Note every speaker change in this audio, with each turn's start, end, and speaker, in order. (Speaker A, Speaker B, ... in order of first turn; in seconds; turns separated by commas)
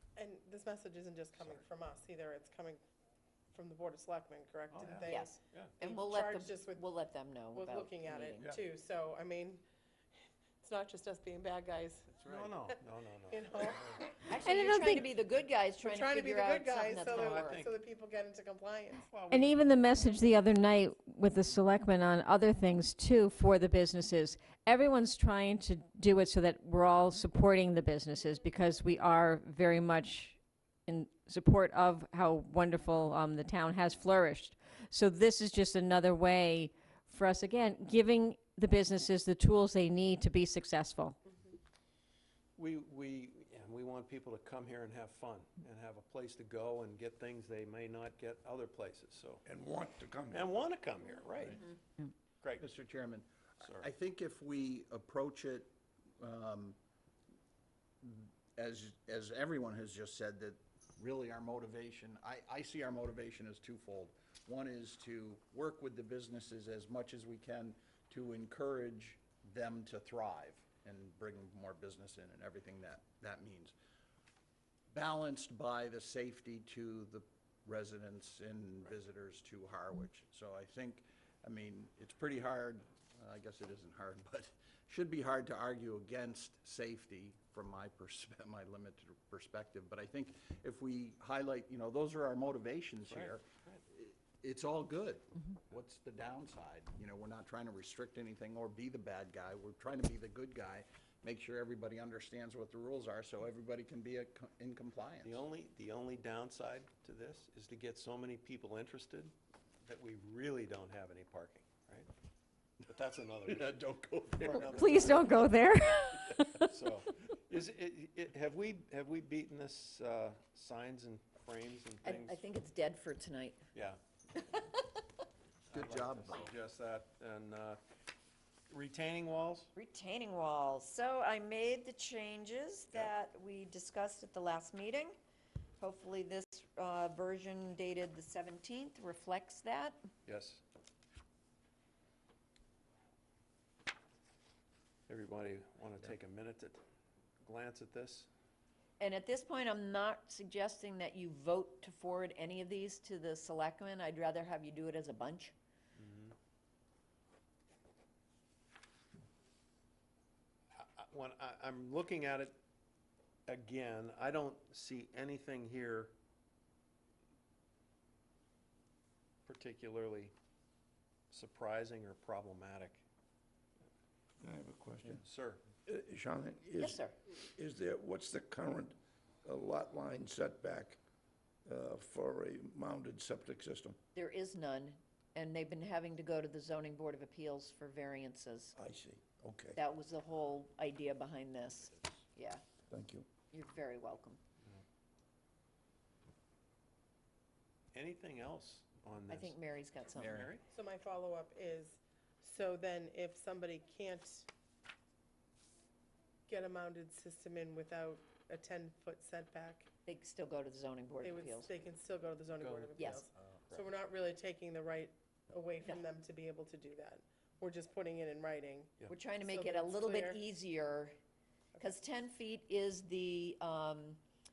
Speaker A: 0.1-2.8, Speaker B: 1.4-1.6, Speaker A: 3.5-6.8, Speaker B: 4.7-5.8, Speaker C: 5.0-8.5, Speaker A: 7.5-9.6, Speaker B: 8.3-8.6, Speaker A: 10.6-14.8, Speaker B: 12.2-14.0, Speaker C: 14.2-17.6, Speaker D: 14.4-15.1, Speaker A: 15.8-19.0, Speaker B: 17.3-17.8, Speaker B: 19.0-19.8, Speaker D: 19.3-41.2, Speaker A: 41.2-41.6, Speaker B: 42.5-49.4, Speaker E: 49.4-50.6, Speaker B: 50.3-51.7, Speaker B: 52.4-52.7, Speaker F: 52.6-56.8, Speaker B: 53.6-53.9, Speaker F: 58.0-73.7, Speaker F: 74.9-105.4, Speaker B: 93.0-93.8, Speaker B: 105.2-109.3, Speaker B: 109.8-112.1, Speaker B: 112.9-115.5, Speaker F: 113.4-115.1, Speaker C: 114.8-115.4, Speaker D: 115.0-116.7, Speaker B: 116.5-122.5, Speaker C: 122.0-123.6, Speaker B: 123.7-124.0, Speaker C: 124.4-124.8, Speaker B: 125.7-127.8, Speaker F: 125.7-126.5, Speaker B: 128.7-129.7, Speaker C: 129.7-135.2, Speaker C: 135.8-140.0, Speaker B: 140.2-140.6, Speaker B: 145.1-146.8, Speaker B: 147.4-148.3, Speaker C: 149.0-155.5, Speaker B: 155.9-156.3, Speaker B: 160.7-162.6, Speaker B: 163.5-166.1, Speaker B: 169.4-170.3, Speaker B: 171.3-173.0, Speaker E: 174.4-175.2, Speaker B: 175.0-175.7, Speaker E: 175.8-181.0, Speaker C: 176.8-177.2, Speaker E: 181.7-184.0, Speaker C: 184.1-188.7, Speaker E: 188.8-189.8, Speaker C: 189.7-192.6, Speaker E: 192.9-193.2, Speaker C: 193.5-194.4, Speaker B: 197.9-199.6, Speaker C: 199.3-200.5, Speaker F: 200.2-200.5, Speaker B: 200.2-200.7, Speaker A: 200.7-204.5, Speaker A: 206.5-209.9, Speaker C: 210.1-211.7, Speaker A: 211.2-220.4, Speaker B: 212.6-213.9, Speaker C: 213.0-213.2, Speaker C: 219.1-221.1, Speaker C: 221.8-224.2